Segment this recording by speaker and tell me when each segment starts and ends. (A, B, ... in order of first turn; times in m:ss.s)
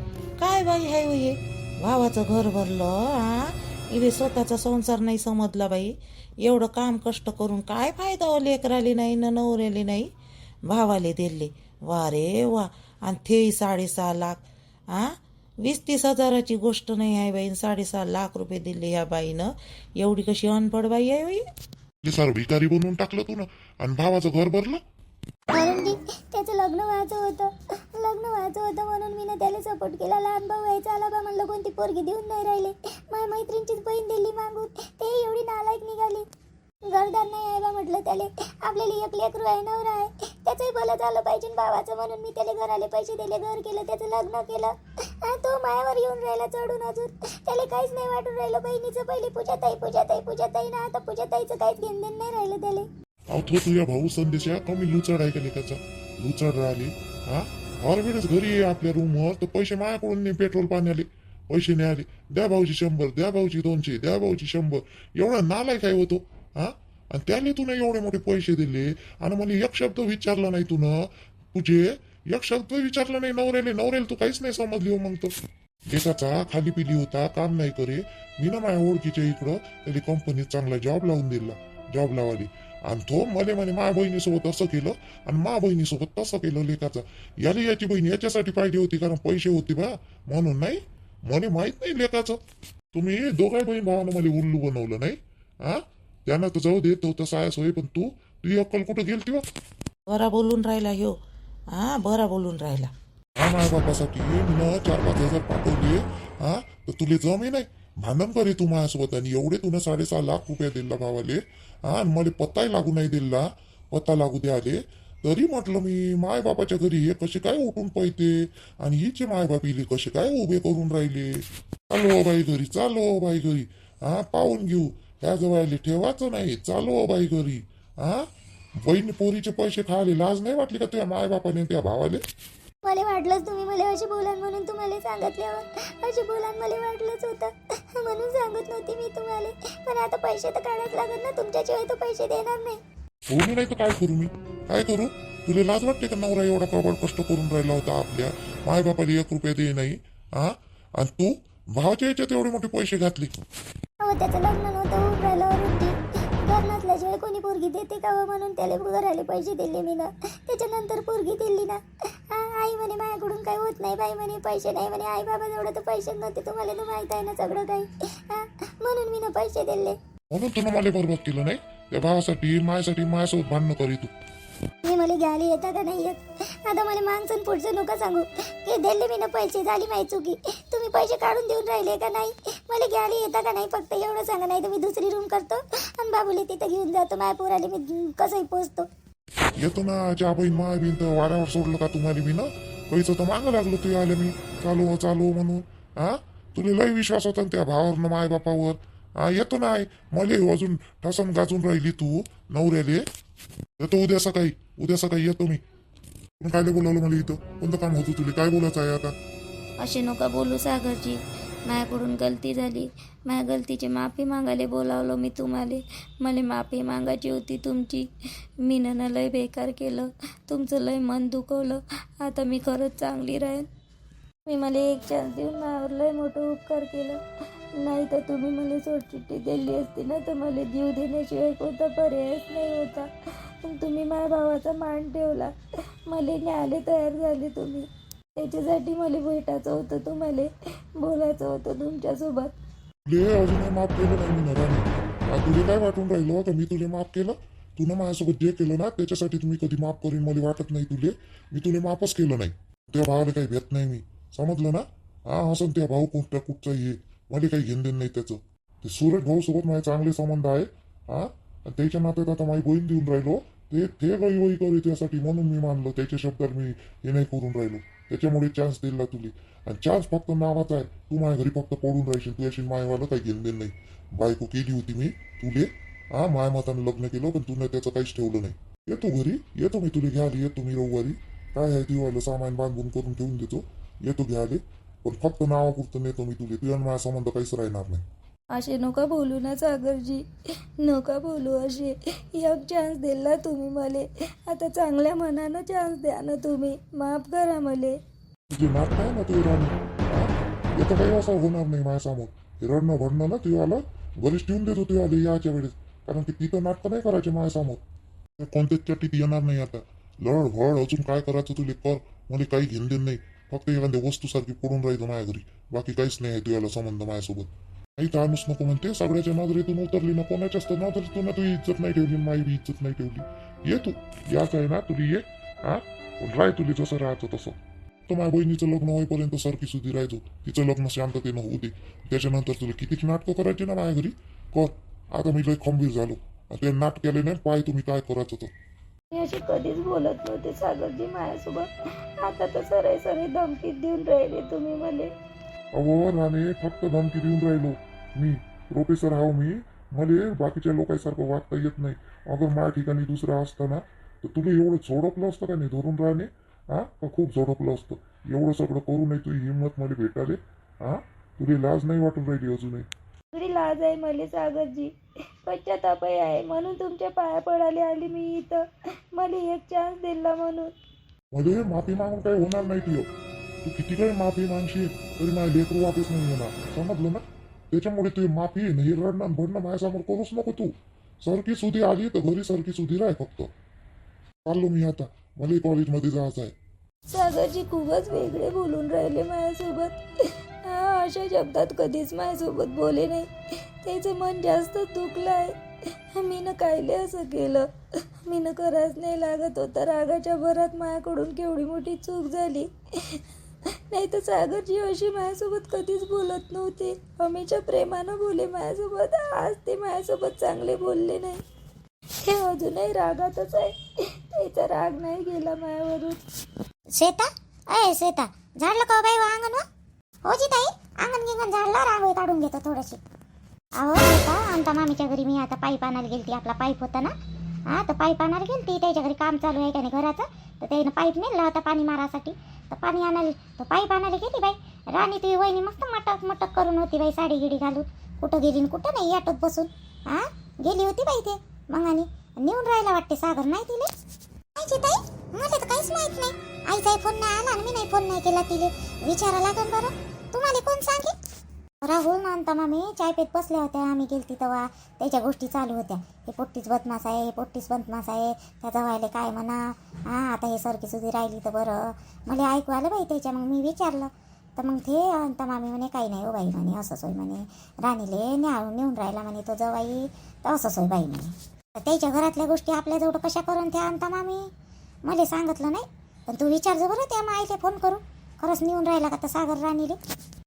0:00.4-0:10.1 A
0:10.7-0:19.5 A
0:20.0-0:21.4 A
0:22.0-0:24.8 B
0:25.5-0:36.3 C
0:36.9-0:52.9 C
0:53.3-1:15.3 B
1:15.9-1:32.4 B
1:33.0-1:39.4 B
1:40.1-1:41.2 A
1:41.7-1:42.9 A
1:43.4-2:08.3 B
2:08.8-2:12.2 B
2:12.8-2:22.8 C
2:23.3-2:33.3 B
2:34.0-2:50.0 C
2:50.3-2:54.1 B
2:54.8-3:08.9 C
3:09.6-3:23.0 B
3:23.8-3:25.6 B
3:26.4-3:29.1 B
3:29.8-3:38.1 D
3:38.6-3:43.7 D
3:44.5-3:47.2 D
3:47.8-3:53.1 D
3:53.6-3:55.5 D
3:56.1-3:57.9 D
3:58.4-4:02.6 D
4:03.1-4:48.0 B
4:48.5-4:50.2 D
4:50.8-4:58.0 D
4:58.5-5:07.8 B
5:08.4-5:38.5 B
5:39.1-5:45.1 D
5:45.8-6:02.9 B
6:03.3-6:04.9 D
6:05.5-6:10.7 D
6:11.3-6:13.1 B
6:13.6-6:20.7 B
6:21.2-6:23.5 B
6:24.5-6:26.5 B
6:27.1-6:30.0 D
6:30.7-6:33.3 D
6:33.8-6:35.6 D
6:36.2-6:37.7 D
6:38.3-6:43.2 D
6:43.9-6:51.4 D
6:52.2-6:53.8 D
6:54.3-6:56.2 D
6:57.0-6:59.6 E
7:00.2-7:03.0 E
7:03.8-7:07.1 E
7:07.7-7:23.9 E
7:24.6-7:31.2 E
7:31.8-7:54.5 E
7:55.1-8:00.0 E